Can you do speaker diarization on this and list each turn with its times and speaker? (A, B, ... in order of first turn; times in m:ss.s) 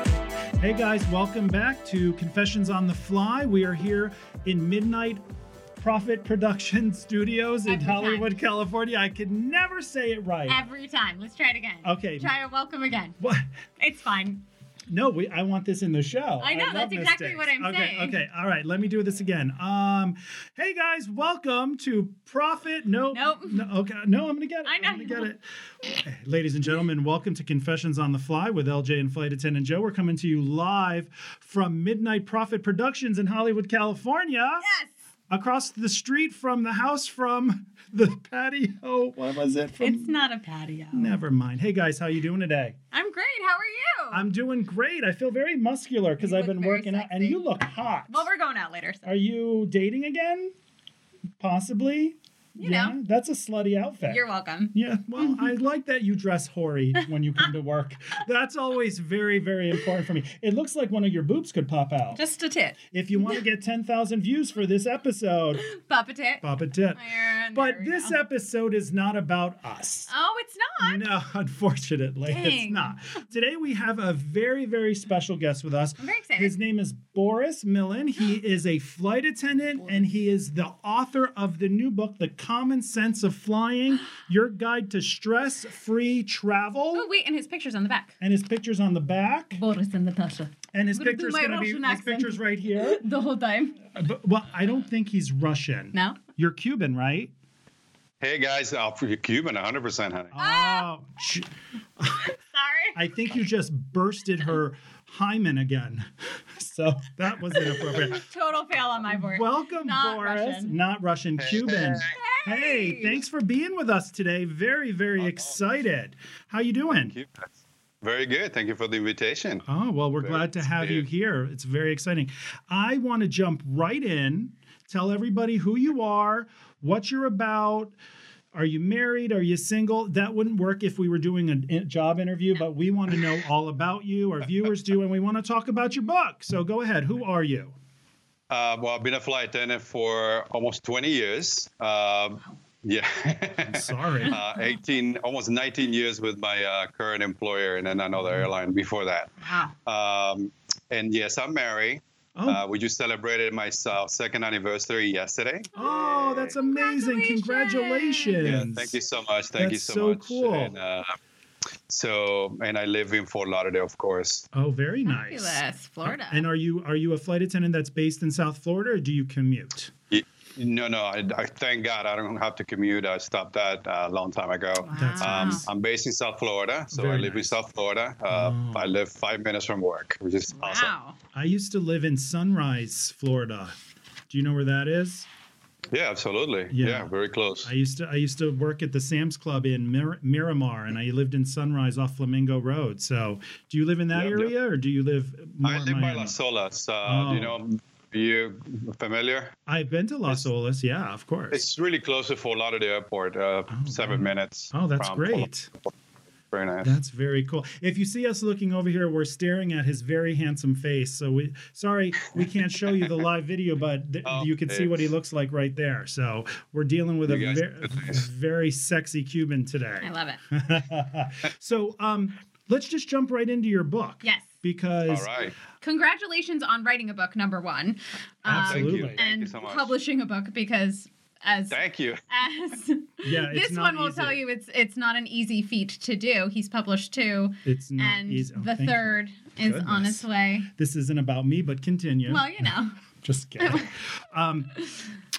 0:00.6-0:05.2 A
0:05.8-0:10.6 A
0:07.7-0:08.3 B
0:10.5-0:13.2 B
0:11.8-0:12.3 A
0:13.2-0:13.5 A
0:13.8-0:14.4 B
0:14.9-0:25.4 A
0:16.4-0:18.2 B
0:23.1-0:23.7 B
0:24.6-0:25.3 B
0:26.0-0:34.6 A
0:34.6-0:34.9 B
0:35.3-0:40.1 A
0:39.8-0:41.2 B
0:40.9-0:42.8 A
0:42.9-0:44.3 B
0:44.1-0:48.2 A
0:46.2-0:47.4 B
0:48.1-0:49.1 B
0:49.0-0:50.5 A
0:51.4-0:54.2 A
0:52.6-0:52.9 B
0:54.1-0:55.5 B
0:54.7-1:02.2 A
1:02.1-1:03.4 B
1:02.8-1:05.6 A
1:05.6-1:06.4 B
1:06.4-1:07.0 A
1:06.9-1:08.2 B
1:07.5-1:10.1 A
1:10.1-1:11.1 B
1:10.8-1:27.0 A
1:12.2-1:13.0 B
1:16.0-1:16.5 B
1:26.9-1:28.1 B
1:28.2-1:29.6 A
1:29.5-1:33.8 B
1:30.7-1:33.0 A
1:33.9-1:37.3 A
1:35.9-1:36.2 B
1:38.2-1:40.4 C
1:40.3-1:42.3 A
1:40.4-1:40.9 B
1:42.1-1:43.0 B
1:42.9-1:48.2 A
1:47.5-1:50.8 B
1:49.1-1:57.1 A
1:51.4-1:52.1 C
1:52.0-1:53.2 B
1:55.2-1:55.6 C
1:56.9-1:57.5 C
1:58.0-1:59.6 C
1:59.6-2:07.9 A
2:00.2-2:01.0 C
2:08.5-2:17.7 A
2:18.5-2:36.5 C
2:23.6-2:24.4 A
2:28.2-2:28.5 A
2:29.4-2:29.7 B
2:32.4-2:32.6 A
2:35.7-2:38.5 B
2:35.8-2:39.0 A
2:38.4-2:41.2 C
2:39.6-2:40.7 A
2:41.9-2:44.4 C
2:44.5-2:49.9 A
2:45.0-2:46.5 B
2:50.1-3:00.9 C
2:54.8-2:55.6 B
2:54.9-2:55.7 A
2:56.9-2:57.5 A
2:58.3-2:58.9 A
3:00.5-3:01.2 B
3:01.3-3:03.8 A
3:04.3-3:05.3 A
3:05.9-3:07.7 C
3:06.7-3:07.1 A
3:07.6-3:16.4 A
3:14.1-3:14.5 C
3:15.6-3:19.6 C
3:17.0-3:17.6 A
3:19.7-3:21.6 A
3:21.5-3:25.5 C
3:23.7-3:25.7 A
3:26.5-3:26.9 C
3:26.8-3:45.3 A
3:34.2-3:35.1 C
3:37.2-3:38.2 C
3:40.0-3:40.4 B
3:45.1-3:45.5 C
3:45.8-4:00.7 B
3:48.4-3:49.2 A
3:48.5-3:50.0 C
3:51.7-3:52.2 C
3:53.2-3:54.4 A
3:57.6-4:04.7 A
4:02.3-4:03.0 B
4:03.6-4:03.9 B
4:04.7-4:05.0 B